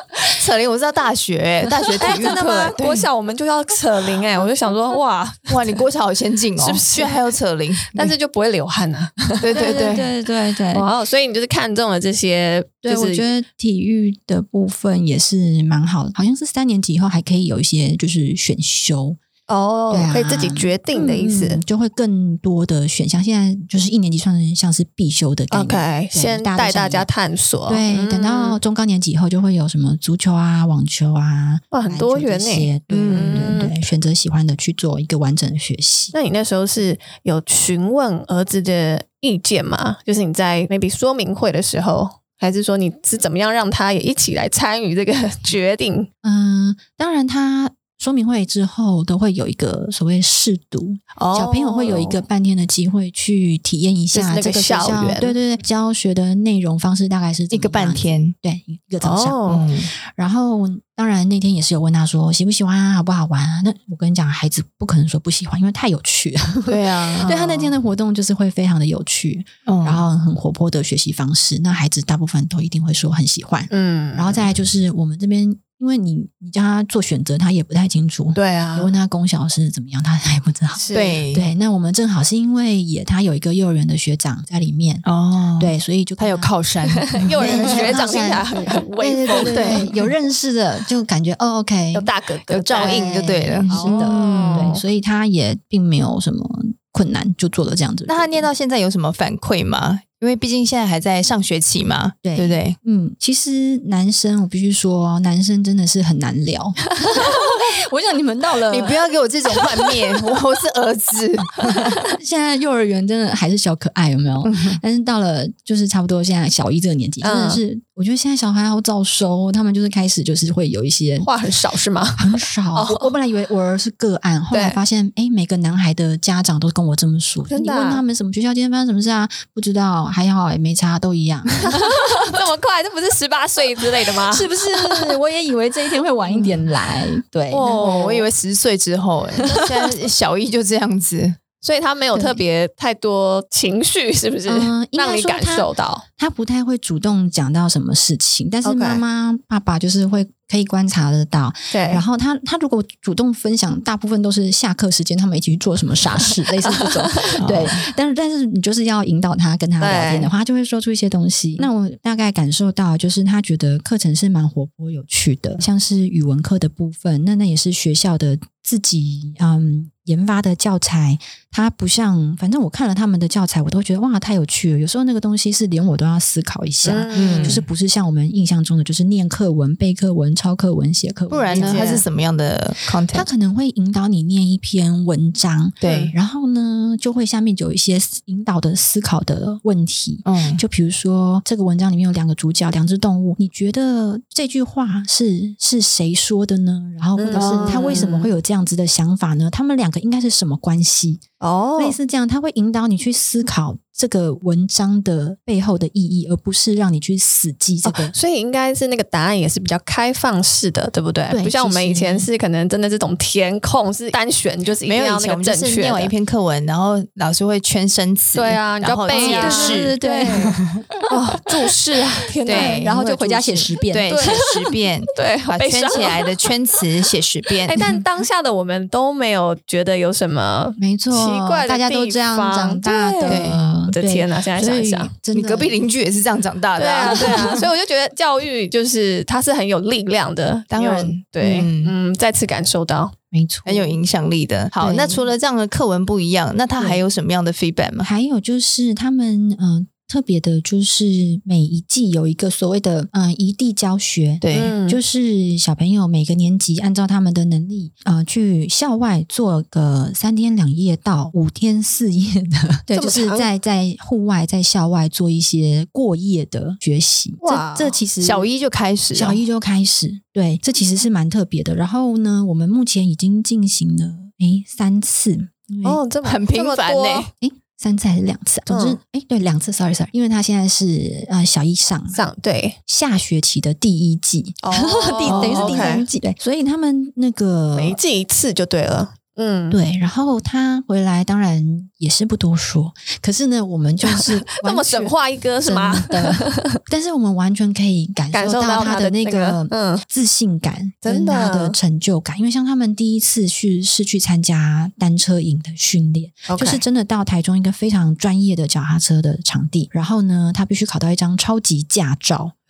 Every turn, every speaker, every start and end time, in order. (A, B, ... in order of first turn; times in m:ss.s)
0:00.2-0:03.1 A
0:02.0-0:05.8 B
0:02.0-0:02.4 C
0:05.5-0:08.1 A
0:06.6-0:07.2 B
0:07.9-0:10.0 B
0:09.4-0:10.1 A
0:09.5-0:10.9 C
0:10.7-0:13.3 B
0:12.8-0:19.2 C
0:19.5-0:21.6 B
0:19.9-0:27.1 C
0:25.5-0:28.6 B
0:27.7-0:36.1 C
0:31.7-0:33.7 B
0:32.9-0:33.6 A
0:36.1-0:46.1 B
0:46.2-1:25.0 C
0:51.2-0:52.0 A
0:51.8-0:52.2 B
0:54.1-0:55.3 B
0:57.5-0:58.3 A
0:59.0-0:59.6 B
0:59.4-0:59.9 A
1:06.7-1:07.7 A
1:09.6-1:10.0 A
1:13.7-1:14.5 B
1:18.3-1:18.9 B
1:20.8-1:21.2 B
1:20.9-1:21.5 A
1:25.0-1:28.0 A
1:25.6-1:26.5 C
1:27.0-1:29.9 B
1:27.3-1:32.1 C
1:29.4-1:30.1 A
1:31.9-1:33.1 B
1:32.5-1:34.8 A
1:32.7-1:38.5 C
1:33.7-1:34.8 B
1:38.0-1:42.8 A
1:42.2-1:49.0 C
1:48.7-1:51.9 A
1:51.8-2:01.3 C
1:54.4-1:54.8 A
1:57.2-1:57.6 B
2:01.2-2:03.1 B
2:02.2-2:12.2 C
2:04.5-2:04.8 B
2:07.5-2:08.0 B
2:11.6-2:15.2 B
2:14.2-2:17.9 C
2:16.3-2:16.6 A
2:17.5-2:21.4 A
2:17.6-2:18.3 B
2:21.6-2:26.0 B
2:22.1-2:22.4 C
2:24.5-3:02.0 C
2:28.6-2:29.0 B
2:31.7-2:32.0 B
2:36.6-2:37.4 B
2:37.4-2:37.8 A
2:39.8-2:40.3 B
2:56.8-2:57.6 B
2:57.1-2:57.6 A
3:01.3-3:03.3 A
3:01.5-3:02.0 B
3:03.1-3:21.2 C
3:05.8-3:06.1 A
3:05.8-3:06.1 B
3:10.2-3:10.6 A
3:17.2-3:18.3 B
3:17.3-3:18.1 A
3:21.4-3:22.0 B
3:21.8-3:28.1 C
3:27.8-3:36.1 B
3:31.3-3:32.3 C
3:34.8-3:40.0 A
3:38.3-3:42.9 B
3:39.1-3:41.5 C
3:40.6-3:40.8 A
3:42.4-3:47.8 A
3:42.5-3:44.5 C
3:44.1-3:44.5 B
3:45.1-3:46.5 B
3:47.6-3:55.1 B
3:47.8-3:48.0 C
3:50.8-3:55.8 C
3:53.2-3:53.6 A
3:55.3-3:57.7 A
3:56.8-4:03.1 B
3:57.1-3:57.5 C
4:00.7-4:01.9 A
4:03.3-4:04.0 C
4:03.6-4:08.1 A
4:04.8-4:05.3 C
4:08.0-4:28.5 C
4:14.4-4:14.8 A
4:14.5-4:15.0 B
4:22.9-4:23.5 B
4:27.4-4:28.0 B
4:28.2-4:29.4 A
4:29.1-4:36.0 C
4:35.8-4:37.3 B
4:36.2-4:37.3 A
4:37.4-4:42.3 C
4:38.7-4:39.0 B
4:42.1-4:42.8 B
4:42.9-4:48.0 C
4:44.6-4:46.0 A
4:44.7-4:46.0 B
4:47.7-4:49.8 B
4:49.7-5:12.6 C
4:54.1-4:56.8 B
4:58.3-5:00.0 B
5:01.0-5:01.8 B
5:06.5-5:06.8 B